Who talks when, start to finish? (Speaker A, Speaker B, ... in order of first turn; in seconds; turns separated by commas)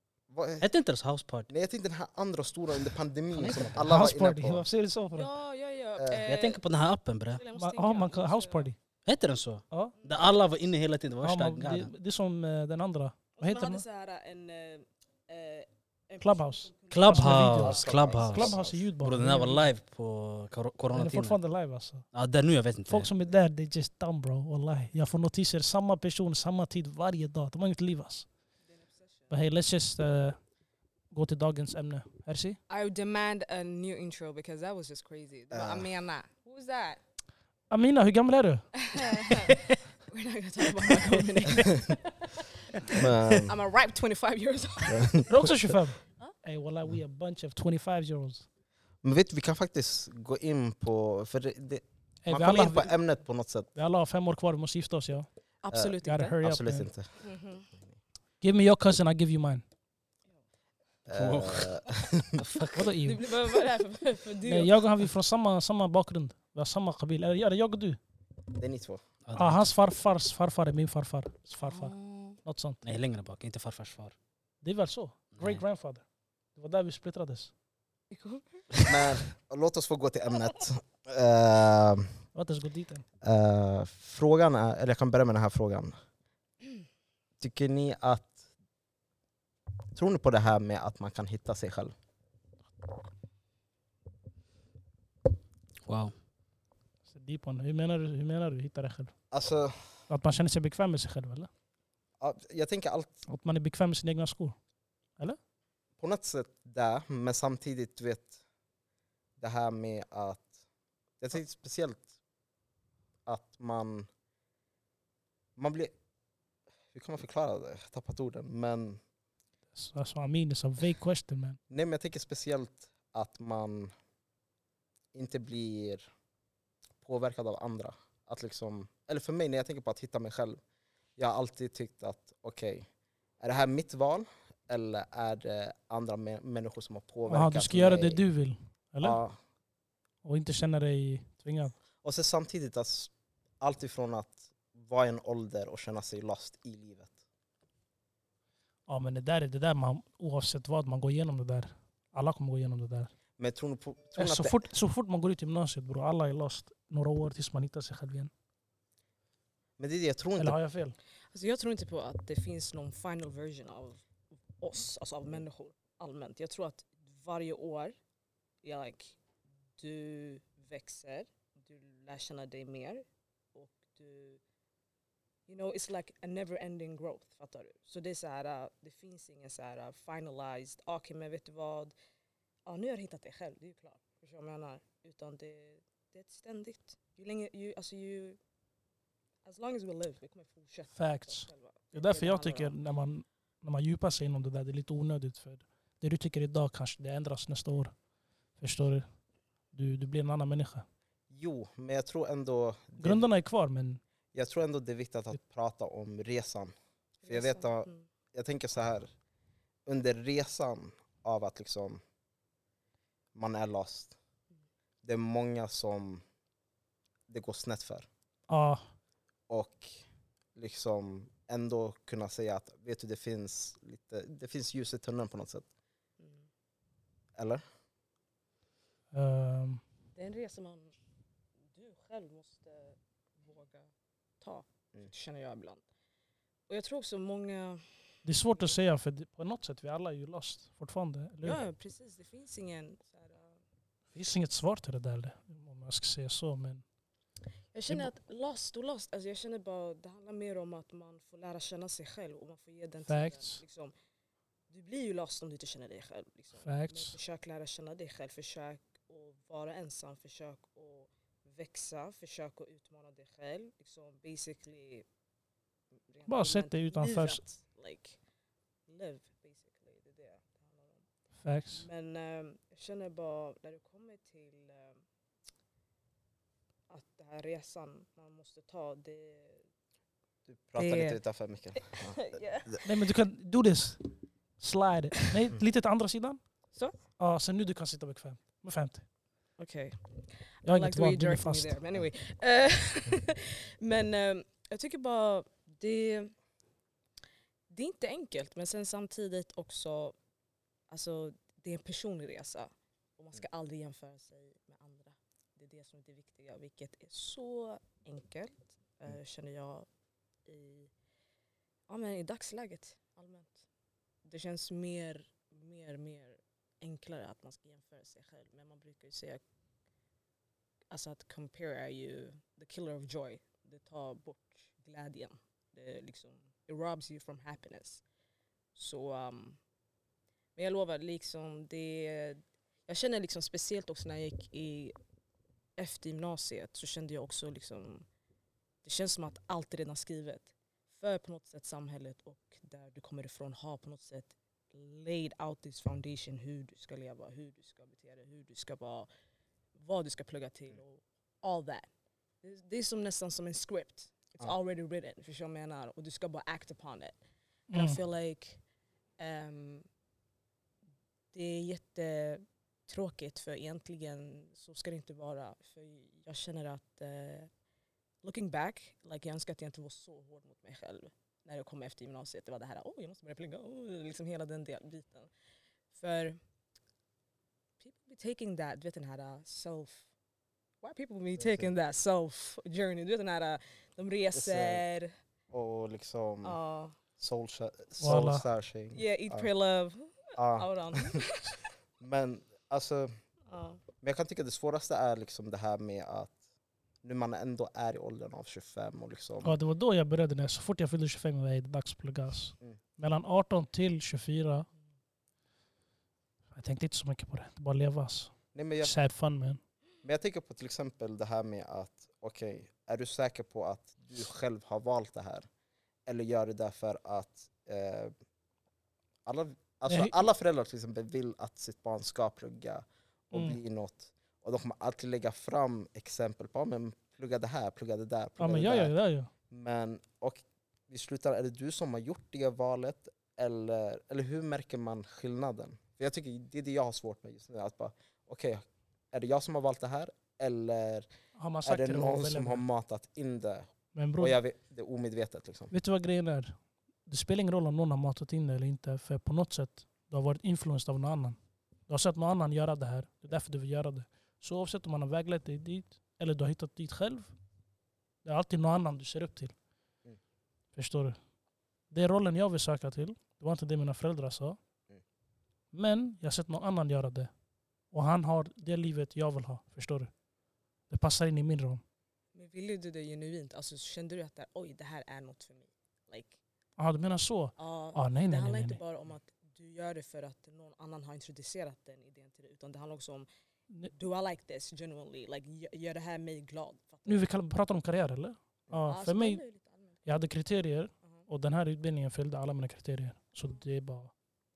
Speaker A: 0.3-0.7, Speaker B: 0.6-1.5, Speaker A: 1.5-4.6, Speaker B: 3.3-3.9, Speaker C: 3.8-5.3, Speaker D: 5.2-6.6, Speaker B: 6.3-7.4, Speaker D: 7.3-8.7, Speaker C: 7.5-8.8, Speaker B: 9.1-11.9, Speaker D: 10.0-10.3, Speaker C: 11.2-13.8, Speaker D: 13.4-17.6, Speaker C: 16.2-19.7, Speaker B: 16.9-21.4, Speaker A: 17.5-18.9, Speaker C: 20.9-22.1, Speaker B: 22.1-23.1, Speaker C: 22.9-28.3, Speaker D: 28.6-29.3, Speaker C: 29.3-30.4, Speaker C: 31.1-32.6, Speaker D: 32.7-37.0, Speaker A: 35.5-35.9, Speaker C: 37.7-38.7, Speaker D: 38.8-45.3, Speaker A: 42.9-43.5, Speaker A: 44.9-45.5, Speaker C: 45.3-48.5, Speaker A: 49.0-53.7, Speaker C: 52.2-52.9, Speaker C: 53.7-55.3, Speaker D: 55.6-56.4, Speaker A: 55.7-57.1, Speaker C: 56.0-56.9, Speaker D: 57.2-57.7, Speaker C: 58.4-59.6, Speaker A: 61.0-62.4, Speaker B: 61.1-62.9, Speaker C: 62.7-63.2, Speaker D: 63.0-64.8, Speaker C: 64.5-68.0, Speaker A: 68.5-69.0, Speaker B: 69.2-69.7, Speaker C: 69.3-71.9, Speaker D: 71.6-72.4, Speaker C: 72.4-72.8, Speaker B: 72.8-74.1, Speaker C: 74.6-76.0, Speaker B: 75.3-75.6, Speaker C: 76.5-77.5, Speaker D: 78.1-78.6, Speaker A: 78.8-82.1, Speaker C: 82.3-83.0, Speaker A: 83.2-85.9, Speaker A: 87.4-88.4, Speaker A: 89.9-91.9, Speaker B: 95.8-96.1, Speaker C: 97.1-99.1, Speaker A: 99.3-99.8, Speaker C: 100.1-101.5, Speaker A: 102.2-103.2, Speaker C: 103.3-104.6, Speaker A: 106.0-108.4, Speaker A: 109.4-110.5, Speaker A: 111.2-112.0, Speaker A: 113.2-114.1, Speaker A: 115.6-115.9, Speaker A: 116.9-119.0, Speaker C: 119.7-121.6, Speaker A: 121.7-123.9, Speaker A: 125.1-126.0, Speaker A: 127.0-130.6, Speaker A: 131.2-132.9, Speaker A: 133.4-138.2, Speaker C: 137.3-139.2, Speaker A: 139.0-139.4, Speaker C: 140.2-141.8, Speaker A: 142.0-147.1, Speaker C: 148.9-153.1, Speaker A: 153.4-154.7, Speaker C: 154.2-158.3, Speaker A: 159.8-160.6, Speaker C: 160.4-160.9, Speaker D: 161.3-164.0, Speaker D: 164.6-167.9, Speaker D: 168.6-169.2, Speaker D: 169.8-174.4, Speaker D: 175.5-181.9, Speaker D: 182.7-188.4, Speaker D: 189.4-192.8, Speaker C: 190.9-197.9, Speaker C: 198.6-199.1, Speaker C: 199.7-200.8, Speaker A: 201.3-203.3, Speaker C: 203.0-204.0, Speaker A: 204.3-206.7, Speaker D: 207.2-208.0, Speaker A: 207.3-209.1, Speaker A: 209.8-212.0, Speaker A: 213.3-214.2, Speaker A: 215.0-216.2, Speaker A: 217.3-218.1, Speaker C: 218.5-218.8, Speaker A: 219.5-220.0, Speaker A: 220.5-225.7, Speaker D: 226.2-226.5, Speaker A: 227.3-227.6, Speaker C: 229.1-229.8, Speaker D: 230.2-230.9, Speaker D: 231.7-233.9, Speaker D: 234.4-235.8, Speaker D: 236.7-238.8, Speaker C: 238.2-241.6, Speaker D: 241.4-243.6, Speaker C: 244.1-246.8, Speaker D: 247.7-253.9, Speaker C: 253.1-253.6, Speaker D: 254.7-265.0, Speaker C: 256.6-257.1, Speaker D: 266.1-268.2, Speaker C: 266.3-267.4, Speaker D: 268.9-271.0, Speaker C: 271.4-271.9, Speaker D: 271.7-275.0, Speaker D: 276.9-279.6, Speaker A: 280.4-282.4, Speaker D: 280.8-281.2, Speaker D: 281.8-282.9, Speaker C: 282.8-286.4, Speaker C: 287.2-289.0, Speaker D: 289.6-296.3, Speaker C: 290.6-291.8, Speaker D: 297.7-300.1, Speaker D: 300.9-309.9, Speaker D: 310.4-310.9, Speaker D: 311.9-313.6, Speaker D: 314.2-319.4, Speaker D: 320.9-328.0, Speaker D: 328.8-329.6, Speaker D: 330.6-334.9, Speaker D: 335.8-338.1, Speaker D: 338.8-349.1, Speaker D: 349.8-351.9, Speaker D: 352.4-357.1, Speaker C: 357.7-358.0, Speaker D: 357.7-358.6, Speaker D: 359.2-359.9, Speaker D: 361.3-367.5, Speaker D: 368.2-375.3, Speaker D: 375.9-376.4, Speaker D: 377.8-380.1, Speaker D: 380.8-385.1, Speaker A: 381.4-381.7, Speaker A: 384.3-384.8, Speaker A: 385.5-386.6, Speaker D: 386.4-386.9, Speaker A: 387.2-389.5, Speaker C: 388.0-388.4, Speaker D: 388.9-391.6, Speaker A: 390.4-391.2, Speaker A: 392.0-393.1, Speaker D: 393.5-393.8, Speaker A: 394.0-396.4, Speaker A: 397.0-399.6, Speaker C: 399.4-404.7, Speaker C: 406.5-409.6, Speaker A: 408.5-408.9, Speaker A: 410.0-415.5, Speaker A: 416.1-418.1, Speaker A: 419.2-428.9, Speaker C: 419.9-420.1, Speaker C: 423.3-423.6, Speaker C: 428.4-429.3, Speaker A: 429.5-441.1, Speaker C: 441.4-442.6, Speaker A: 441.6-445.7, Speaker C: 443.9-444.4, Speaker C: 445.7-457.3, Speaker C: 458.2-459.5, Speaker C: 460.7-461.2, Speaker C: 461.9-464.6, Speaker C: 465.7-467.3, Speaker C: 467.9-470.1, Speaker C: 470.9-471.8, Speaker D: 472.3-476.4, Speaker C: 476.8-478.8, Speaker D: 477.6-483.3, Speaker D: 483.9-487.3, Speaker C: 487.1-489.4, Speaker D: 488.9-489.9, Speaker C: 490.0-494.1